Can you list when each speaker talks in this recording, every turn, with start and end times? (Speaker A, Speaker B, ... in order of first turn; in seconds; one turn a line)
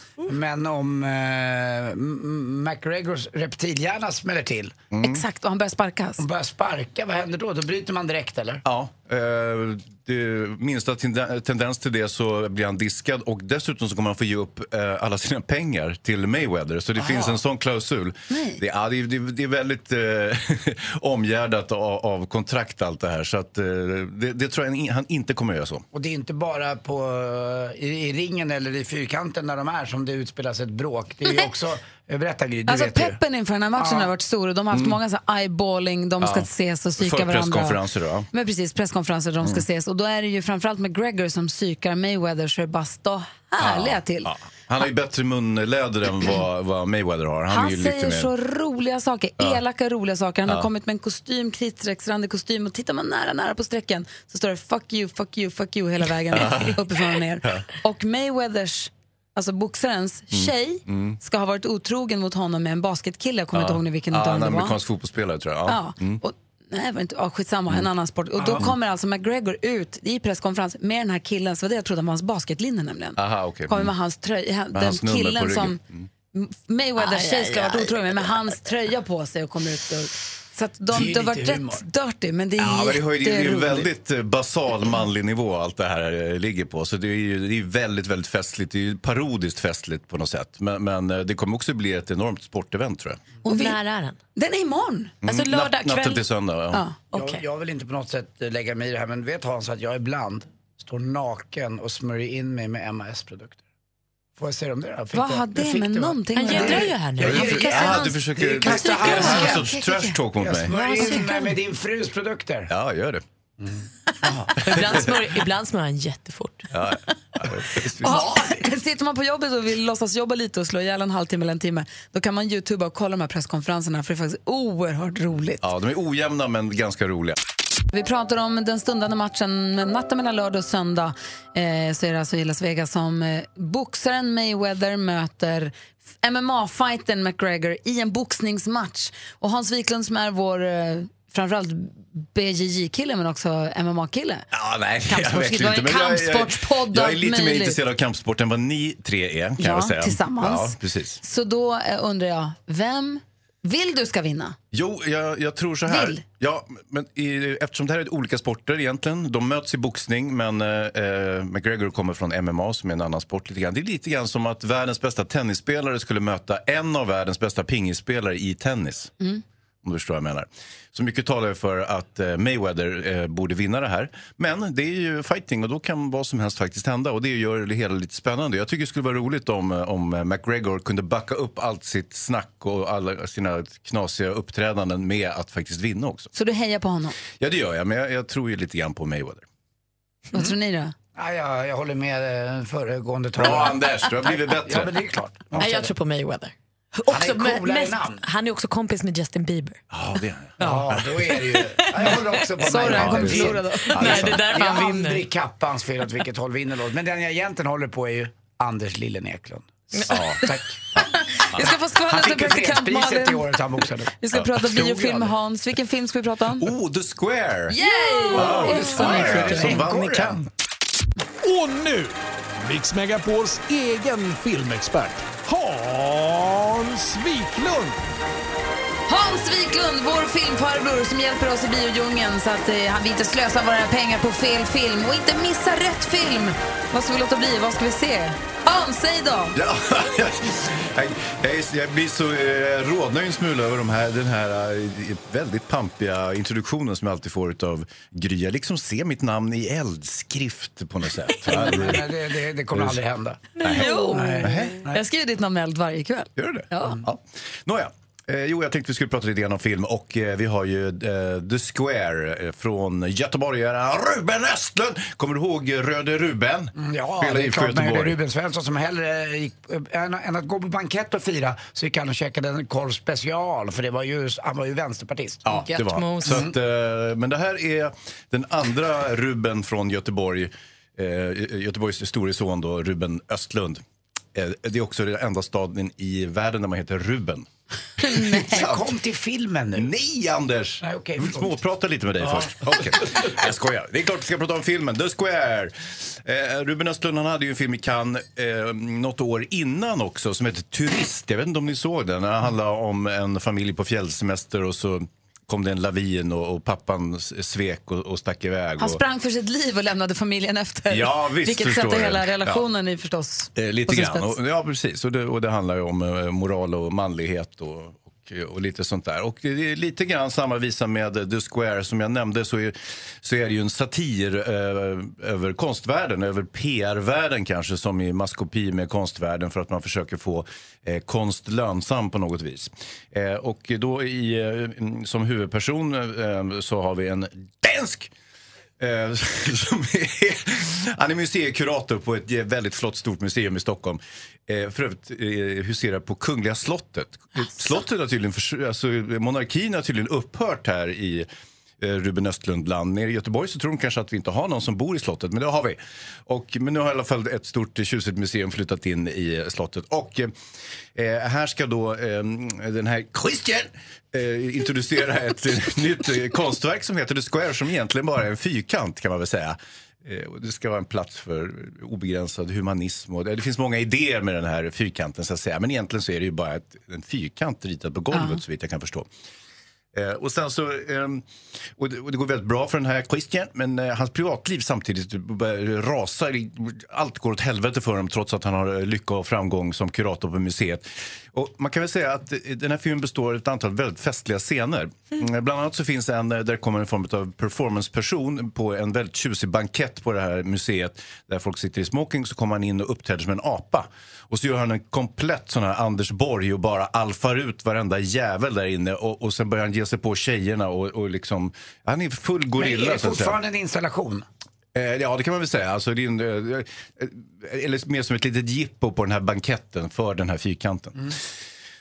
Speaker A: 0.2-4.8
Speaker B: 4.9-5.2
Speaker C: 5.0-6.2
Speaker A: 6.2-8.6
Speaker B: 8.7-25.8
Speaker A: 17.0-17.3
Speaker C: 18.3-18.6
Speaker A: 25.9-33.2
Speaker C: 32.7-44.8
Speaker A: 33.7-34.1
Speaker B: 34.7-35.0
Speaker B: 36.2-38.3
Speaker B: 43.6-48.3
Speaker C: 47.5-64.8
Speaker B: 56.3-56.9
Speaker B: 60.3-61.2
Speaker B: 63.5-66.2
Speaker C: 65.7-75.8
Speaker A: 68.4-68.7
Speaker B: 73.2-73.9
Speaker B: 74.7-76.1
Speaker C: 76.3-83.9
Speaker D: 77.0-78.3
Speaker A: 80.9-81.8
Speaker B: 82.6-93.2
Speaker D: 93.4-94.2
Speaker C: 93.5-93.8
Speaker C: 94.3-95.1
Speaker B: 95.2-96.8
Speaker D: 95.2-96.2
Speaker D: 97.1-97.4
Speaker A: 97.1-103.6
Speaker A: 104.3-109.8
Speaker C: 105.1-108.0
Speaker D: 106.3-108.2
Speaker B: 107.2-110.7
Speaker C: 108.6-110.2
Speaker A: 110.3-112.7
Speaker D: 110.7-111.5
Speaker B: 112.7-113.2
Speaker A: 113.6-114.5
Speaker D: 114.6-116.7
Speaker B: 116.7-118.6
Speaker C: 118.0-125.6
Speaker B: 125.6-127.4
Speaker C: 127.9-144.5
Speaker B: 144.5-151.2
Speaker C: 145.1-147.8
Speaker C: 149.6-154.6
Speaker B: 154.7-169.1
Speaker C: 155.8-156.2
Speaker B: 169.8-186.3
Speaker C: 186.3-187.2
Speaker B: 187.4-189.4
Speaker C: 190.3-190.9
Speaker A: 191.1-195.9
Speaker B: 193.3-195.0
Speaker D: 195.6-199.8
Speaker A: 197.1-198.2
Speaker B: 199.9-201.1
Speaker A: 200.6-211.0
Speaker D: 200.6-205.2
Speaker C: 202.6-204.3
Speaker B: 202.7-204.5
Speaker D: 209.9-210.2
Speaker B: 210.1-210.4
Speaker C: 210.9-213.5
Speaker A: 211.6-214.2
Speaker C: 214.2-216.7
Speaker B: 214.3-215.3
Speaker B: 216.6-217.8
Speaker C: 217.7-219.8
Speaker D: 218.1-219.2
Speaker B: 218.3-220.4
Speaker A: 218.4-220.4
Speaker E: 221.4-228.0
Speaker C: 229.1-239.5
Speaker B: 239.5-252.1
Speaker A: 251.4-255.0
Speaker B: 252.7-253.0
Speaker D: 253.6-254.4
Speaker B: 253.6-253.9
Speaker C: 253.7-257.0
Speaker B: 254.4-254.8
Speaker B: 256.4-268.2
Speaker A: 266.8-275.4
Speaker B: 275.4-283.8
Speaker D: 275.5-276.5
Speaker A: 276.2-276.5
Speaker B: 284.3-287.4
Speaker C: 288.0-288.6
Speaker A: 288.1-289.9
Speaker B: 288.5-288.9
Speaker B: 289.8-309.0
Speaker A: 290.8-291.6
Speaker C: 308.8-314.3
Speaker B: 310.9-312.6
Speaker B: 313.6-338.1
Speaker B: 338.8-351.3
Speaker B: 351.8-360.3
Speaker B: 360.9-379.1
Speaker C: 378.1-378.4
Speaker B: 379.9-381.2
Speaker B: 381.8-413.4
Speaker A: 412.6-414.3
Speaker B: 414.7-421.2